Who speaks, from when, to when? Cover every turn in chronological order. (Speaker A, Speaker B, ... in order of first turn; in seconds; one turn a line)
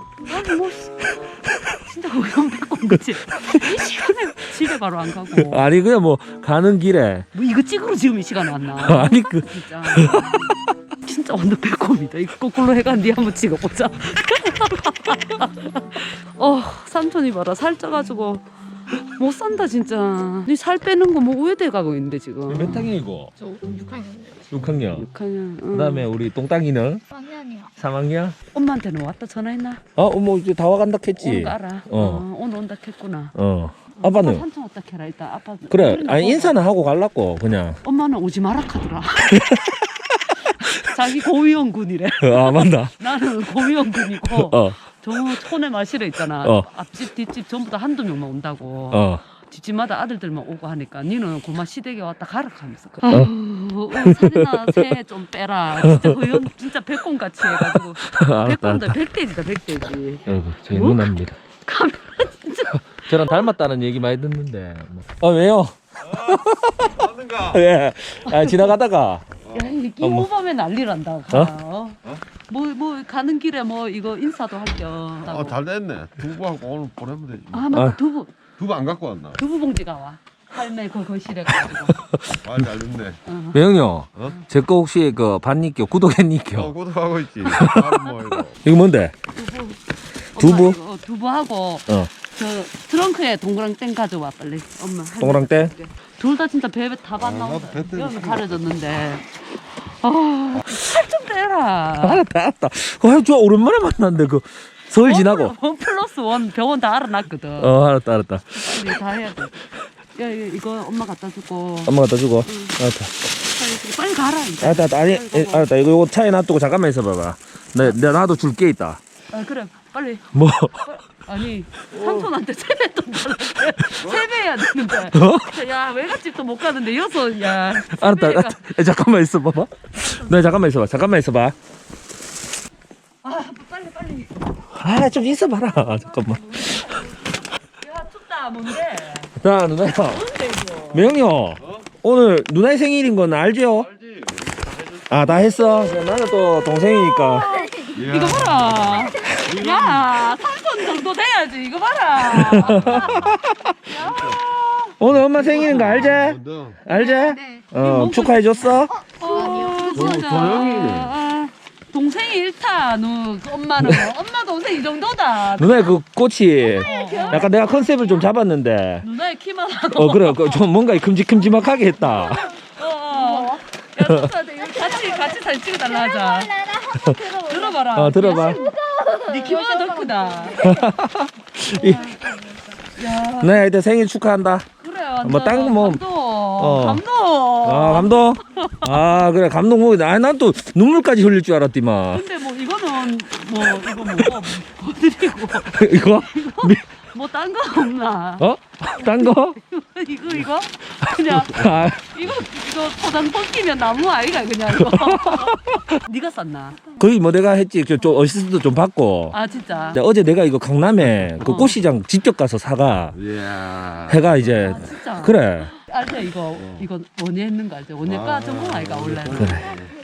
Speaker A: 0.2-5.7
Speaker B: 5.3-7.3
Speaker A: 7.3-22.9
Speaker B: 8.8-10.5
Speaker B: 22.5-23.3
Speaker C: 23.4-24.4
Speaker B: 24.5-25.1
Speaker A: 24.9-26.1
Speaker B: 25.7-27.0
Speaker C: 27.1-27.7
Speaker B: 27.8-28.4
Speaker A: 28.5-29.8
Speaker B: 30.0-32.2
Speaker A: 31.2-33.4
Speaker B: 33.4-34.5
Speaker A: 34.0-36.6
Speaker B: 35.7-37.8
Speaker A: 37.8-39.5
Speaker B: 39.3-40.0
Speaker A: 40.5-61.1
Speaker B: 42.2-42.9
Speaker B: 44.3-44.8
Speaker B: 46.4-46.7
Speaker B: 48.9-49.2
Speaker B: 54.0-54.9
Speaker B: 55.8-56.5
Speaker B: 57.4-59.0
Speaker B: 60.3-61.4
Speaker A: 61.6-63.5
Speaker B: 63.0-69.3
Speaker D: 67.0-67.6
Speaker A: 68.3-68.7
Speaker D: 69.5-69.7
Speaker A: 69.5-75.6
Speaker B: 70.0-70.3
Speaker D: 75.2-77.7
Speaker A: 77.5-78.3
Speaker B: 77.7-78.0
Speaker D: 78.6-79.4
Speaker A: 79.4-82.0
Speaker B: 81.9-82.4
Speaker D: 82.4-83.2
Speaker A: 83.2-83.6
Speaker B: 83.5-86.8
Speaker D: 86.6-88.6
Speaker B: 87.5-88.0
Speaker B: 88.6-89.2
Speaker A: 89.3-89.8
Speaker B: 90.3-90.8
Speaker A: 90.3-102.2
Speaker B: 95.2-95.8
Speaker D: 97.2-98.6
Speaker B: 102.0-105.5
Speaker A: 105.0-107.8
Speaker B: 107.6-109.0
Speaker A: 108.5-111.9
Speaker B: 111.9-113.3
Speaker A: 112.5-112.8
Speaker A: 113.4-115.7
Speaker B: 114.6-119.0
Speaker A: 119.3-120.3
Speaker B: 120.3-120.9
Speaker A: 120.8-128.6
Speaker B: 122.0-122.2
Speaker B: 125.1-125.5
Speaker B: 127.9-131.6
Speaker A: 133.2-134.4
Speaker B: 134.8-137.0
Speaker A: 136.6-139.3
Speaker B: 139.4-140.3
Speaker A: 140.1-141.2
Speaker B: 140.9-143.9
Speaker D: 143.9-145.0
Speaker B: 145.1-147.5
Speaker A: 147.3-156.1
Speaker C: 147.4-148.0
Speaker D: 147.9-150.2
Speaker B: 152.2-153.8
Speaker D: 152.6-153.3
Speaker D: 154.0-154.4
Speaker B: 155.0-159.0
Speaker D: 155.3-156.8
Speaker C: 157.2-157.7
Speaker A: 157.8-158.4
Speaker A: 159.1-165.9
Speaker C: 159.2-160.3
Speaker D: 159.8-161.2
Speaker B: 163.8-164.1
Speaker B: 165.6-169.1
Speaker A: 166.7-168.2
Speaker C: 166.9-167.4
Speaker A: 169.0-170.6
Speaker B: 169.9-172.6
Speaker A: 172.1-180.7
Speaker B: 174.0-174.3
Speaker C: 174.7-177.8
Speaker B: 177.9-178.6
Speaker C: 178.5-180.9
Speaker B: 180.6-182.2
Speaker C: 181.7-182.8
Speaker A: 183.0-183.7
Speaker B: 183.4-184.7
Speaker A: 184.8-189.0
Speaker B: 185.2-187.0
Speaker B: 187.6-192.2
Speaker A: 192.1-206.9
Speaker B: 193.9-194.4
Speaker B: 195.7-196.8
Speaker B: 198.4-199.6
Speaker B: 201.3-202.2
Speaker B: 204.8-205.8
Speaker B: 207.0-209.4
Speaker A: 209.3-210.0
Speaker B: 209.9-213.2
Speaker A: 211.4-211.8
Speaker D: 213.1-214.3
Speaker B: 214.1-215.7
Speaker A: 214.5-219.6
Speaker D: 216.6-216.9
Speaker D: 218.1-219.9
Speaker B: 219.3-219.8